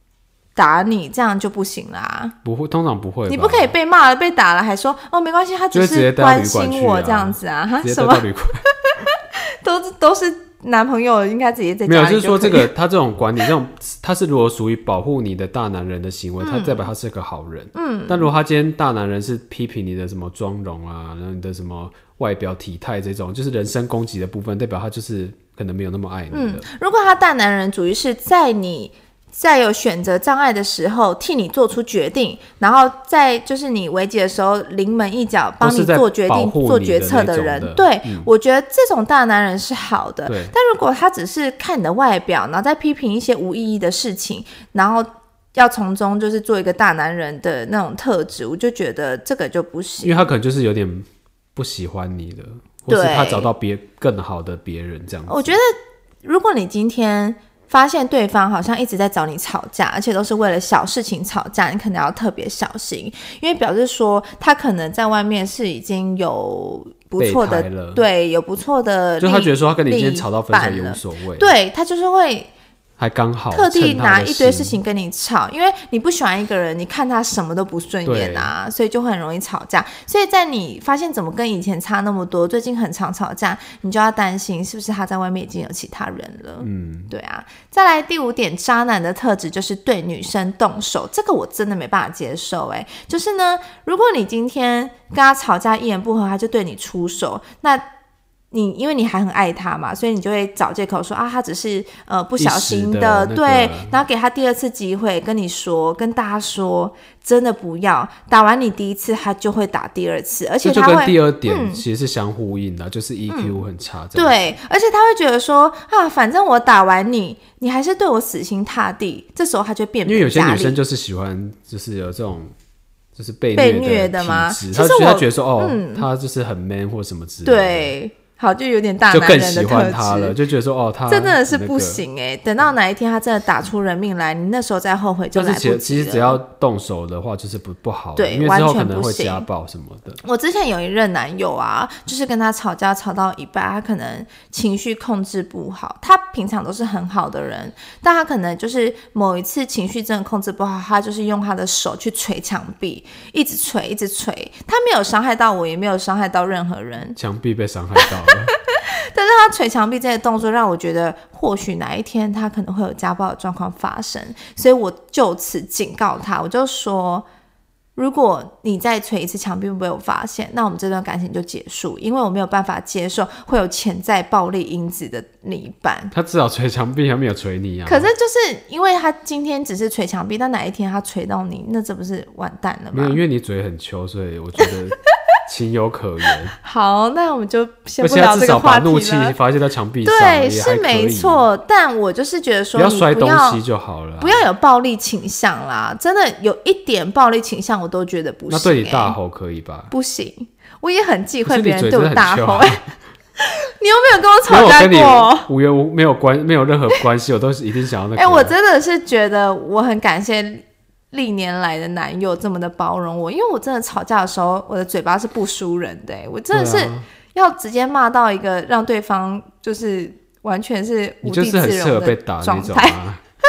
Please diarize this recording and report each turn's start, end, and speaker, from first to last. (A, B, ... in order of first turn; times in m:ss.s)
0:00.6-0:02.4 A
0:02.4-0:03.7 B
0:03.3-0:08.2 A
0:05.7-0:08.6 B
0:08.8-0:12.7 A
0:11.9-0:26.6 B
0:16.4-0:16.9 A
0:17.8-0:18.3 A
0:26.3-0:50.3 A
0:35.6-0:38.3 B
0:40.3-0:40.5 B
0:50.0-0:55.6 B
0:52.9-0:53.5 A
0:55.3-0:55.7 A
0:56.2-1:12.5 A
1:07.2-1:08.0 B
1:09.2-1:11.5 B
1:13.0-1:14.8 B
1:13.5-1:37.9 A
1:18.0-1:18.5 B
1:26.6-1:27.1 B
1:38.5-1:51.8 A
1:42.4-1:44.0 B
1:50.6-1:54.4 B
1:53.3-1:53.6 A
1:54.2-2:00.8 A
2:00.1-2:02.5 B
2:03.2-2:07.9 B
2:03.6-2:06.1 A
2:07.4-2:10.4 A
2:09.1-2:12.0 B
2:11.1-2:16.4 A
2:15.3-2:20.2 B
2:18.2-2:19.5 A
2:20.2-2:37.2 A
2:37.2-2:38.5 B
2:38.0-2:47.3 A
2:48.0-2:56.1 A
2:56.1-2:58.1 B
2:57.9-3:03.2 A
3:02.9-3:06.6 B
3:06.6-3:09.4 A
3:08.0-3:11.5 B
3:10.0-3:13.6 A
3:12.8-3:14.4 B
3:14.2-3:19.2 A
3:18.5-3:19.9 B
3:19.9-3:22.8 A
3:21.4-3:22.9 B
3:23.4-3:25.5 A
3:24.5-3:28.5 B
3:28.2-3:43.0 A
3:36.5-3:37.1 B
3:41.2-3:43.2 B